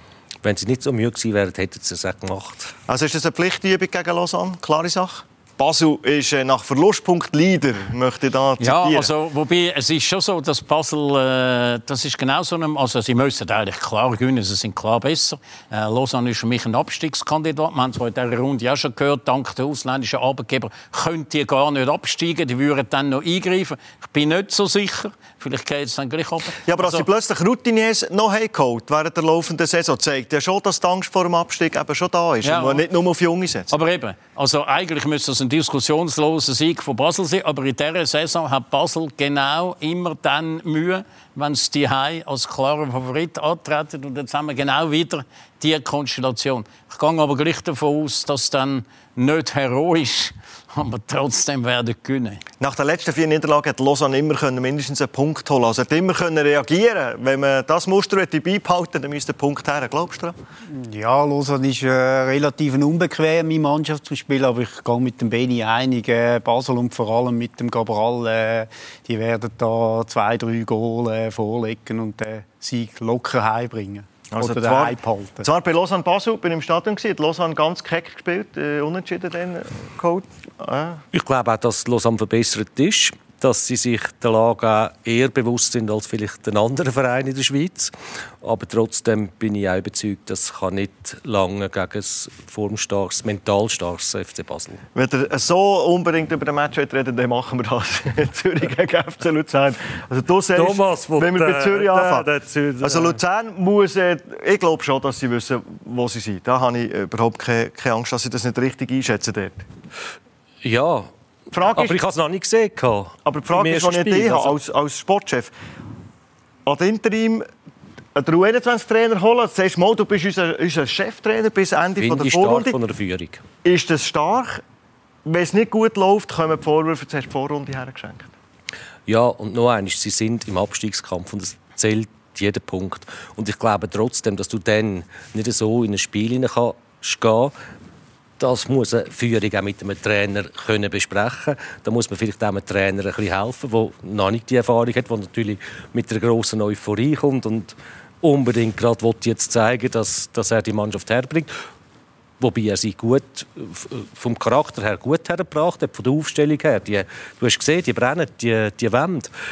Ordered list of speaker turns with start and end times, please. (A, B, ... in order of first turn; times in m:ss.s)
0:00.4-0:02.7 A
0:02.9-0:09.1 B
0:08.6-0:27.0 C
0:26.6-0:33.7 B
0:32.4-0:32.8 C
0:33.7-0:52.4 C
0:52.6-1:00.4 B
1:00.7-1:15.5 D
1:14.3-1:21.0 B
1:21.1-1:34.8 A
1:34.9-1:42.3 B
1:40.6-1:43.2 A
1:42.8-1:49.6 B
1:50.6-1:54.6 A
1:51.5-1:52.0 B
1:53.2-1:55.5 B
1:56.6-1:57.4 B
1:58.1-2:02.8 B
2:02.0-2:03.4 A
2:03.6-2:04.6 B
2:05.2-2:08.3 B
2:09.1-2:17.5 A
2:18.4-2:31.5 A
2:32.4-2:39.3 A